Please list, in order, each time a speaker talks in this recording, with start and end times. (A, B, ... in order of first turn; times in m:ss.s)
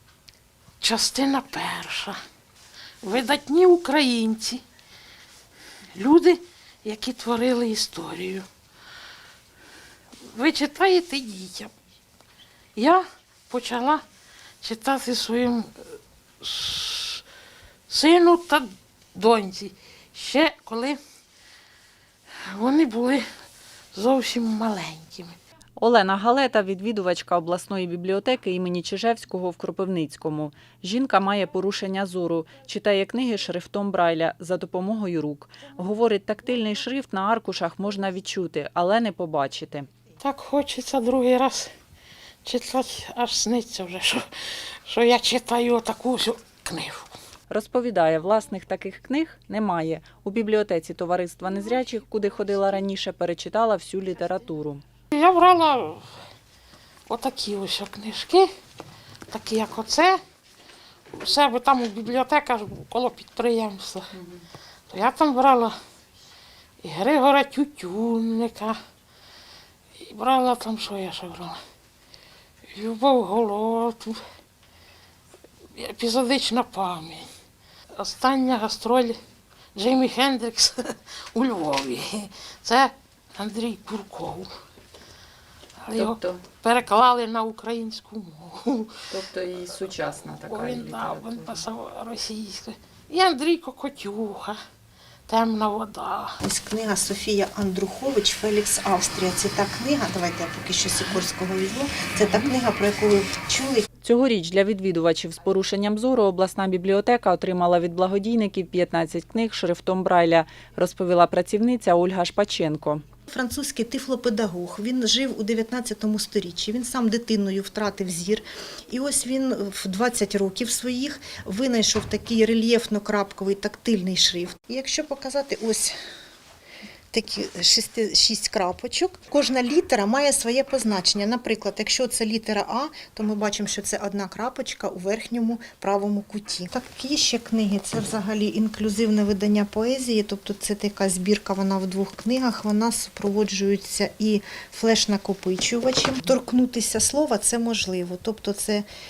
0:00.8-0:02.2 A
0:03.0-0:04.6 A
0:05.9-0:08.5 A
0:10.2-0:11.7 A
0:12.8-0:14.0 A
0:14.6-0:15.7 A
0:16.4-0:17.2 A
0:17.9-0:21.0 A
0:22.4-0:23.2 A
0:23.9-0:25.4 A
0:25.8-0:39.9 B
0:40.2-0:41.7 A
0:42.4-0:44.3 A
0:44.8-0:47.1 A
0:47.5-0:54.8 B
0:55.1-0:56.1 A
0:57.1-0:58.5 A
0:59.3-1:00.2 A
1:01.1-1:04.2 A
1:04.9-1:05.8 A
1:06.8-1:08.8 A
1:10.0-1:11.6 A
1:12.7-1:14.2 A
1:15.8-1:17.3 A
1:18.0-1:19.2 A
1:19.8-1:24.5 A
1:25.8-1:29.0 A
1:26.0-1:26.4 B
1:29.1-1:31.6 B
1:30.4-1:34.6 A
1:35.3-1:36.4 A
1:36.4-1:43.8 C
1:44.0-1:53.0 B
1:53.3-2:06.0 C
2:07.1-2:28.9 C